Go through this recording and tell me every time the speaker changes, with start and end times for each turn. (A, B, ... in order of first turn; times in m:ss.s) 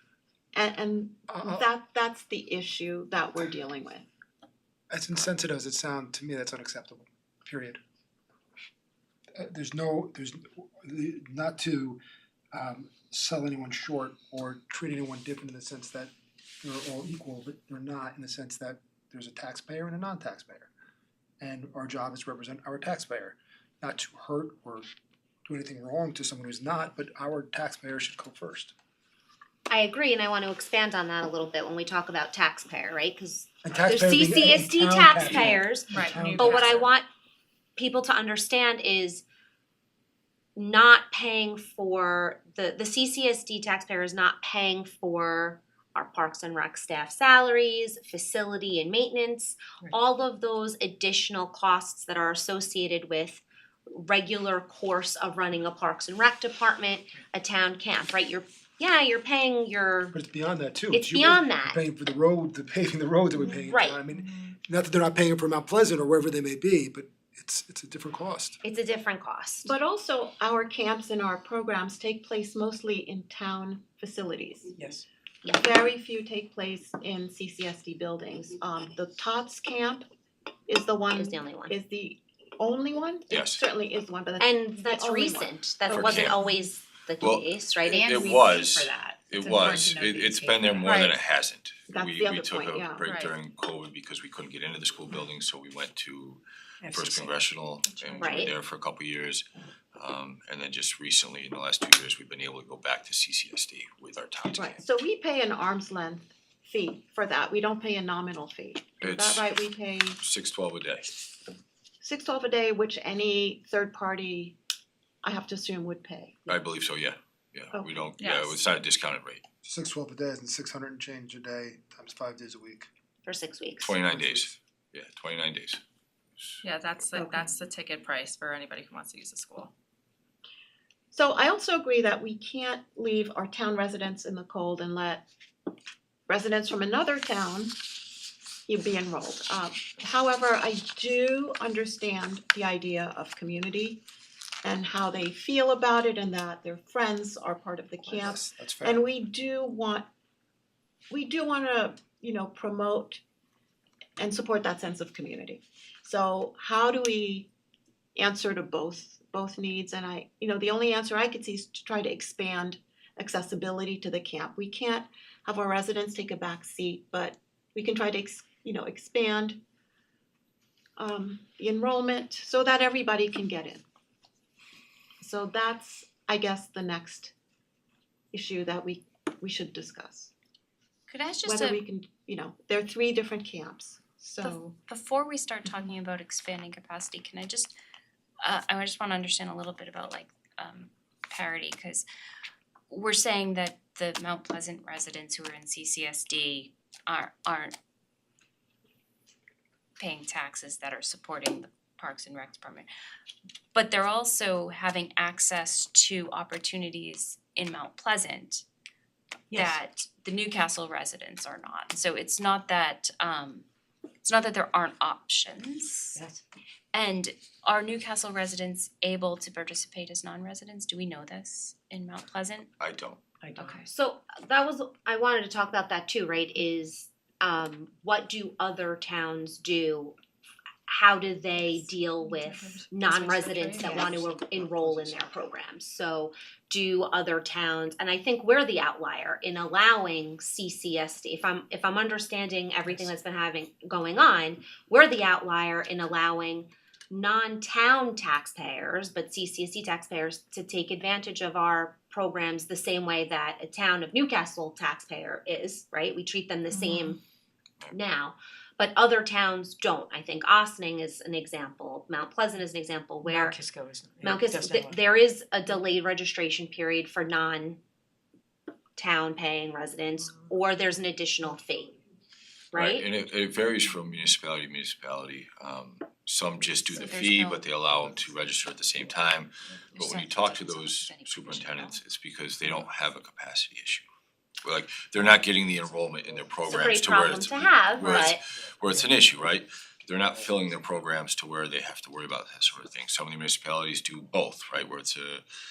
0:00.5-0:04.0 A
0:01.3-0:01.7 B
0:04.9-0:07.8 B
0:09.4-0:12.0 B
0:12.5-0:20.7 B
0:21.4-0:24.9 B
0:25.4-0:28.7 B
0:29.7-0:37.1 C
0:33.6-0:36.8 B
0:35.9-0:36.9 D
0:37.8-0:39.2 C
0:40.6-1:00.1 C
1:00.1-1:08.6 B
1:00.9-1:01.8 C
1:03.6-1:04.0 C
1:08.6-1:09.7 C
1:09.6-1:14.7 A
1:14.8-1:15.0 E
1:15.5-1:20.0 A
1:20.7-1:26.3 A
1:21.1-1:21.7 C
1:23.3-1:23.6 F
1:24.4-1:28.1 C
1:25.9-1:26.4 F
1:27.2-1:44.8 F
1:30.8-1:31.2 D
1:31.9-1:33.1 A
1:33.0-1:33.3 D
1:36.8-1:37.5 E
1:37.8-1:38.5 D
1:38.2-1:38.5 C
1:44.5-1:50.2 A
1:49.0-1:49.4 F
1:50.2-1:51.1 F
1:52.0-1:54.6 A
1:55.2-1:56.6 A
1:56.5-1:59.4 F
1:57.7-1:58.0 A
1:58.2-1:58.6 D
1:59.6-2:02.9 B
2:03.2-2:04.0 C
2:03.8-2:05.8 F
2:04.1-2:04.5 B
2:06.6-2:09.7 D
2:07.1-2:07.5 A
2:11.1-2:15.2 A
2:16.3-2:17.8 A
2:18.7-2:24.0 A
2:24.6-2:30.0 A
2:28.0-2:29.0 B
2:31.1-2:33.2 A
2:34.2-2:37.5 A
2:38.1-2:49.6 A
2:51.0-2:53.8 A
2:55.2-2:57.3 A
2:58.3-3:00.3 A
3:01.1-3:01.8 G
3:01.4-3:04.7 A
3:04.4-3:07.7 G
3:08.4-3:12.0 G
3:12.9-3:17.8 G
3:20.0-3:22.9 G
3:23.7-3:28.6 G
3:29.5-3:33.6 G
3:29.5-3:29.8 E
3:34.2-3:36.2 G
3:36.1-3:36.4 E
3:36.9-3:42.7 G
3:42.8-3:43.2 F
3:43.4-3:43.8 E
3:43.5-3:43.8 G
3:43.8-3:50.2 C
3:50.9-4:17.2 C
3:52.3-3:53.2 D
3:53.4-3:55.4 E
4:17.9-4:23.6 C
4:23.2-4:25.0 E
4:24.2-4:27.8 C
4:29.0-4:31.9 C
4:32.7-4:33.1 C
4:32.7-4:44.0 F
4:36.8-4:37.6 G
4:37.9-4:38.3 E
4:39.9-4:42.0 G
4:42.6-4:42.9 E
4:44.6-4:55.4 F
4:45.4-4:46.9 E
4:46.6-4:48.4 C
4:47.9-4:48.3 E
4:48.8-4:49.3 E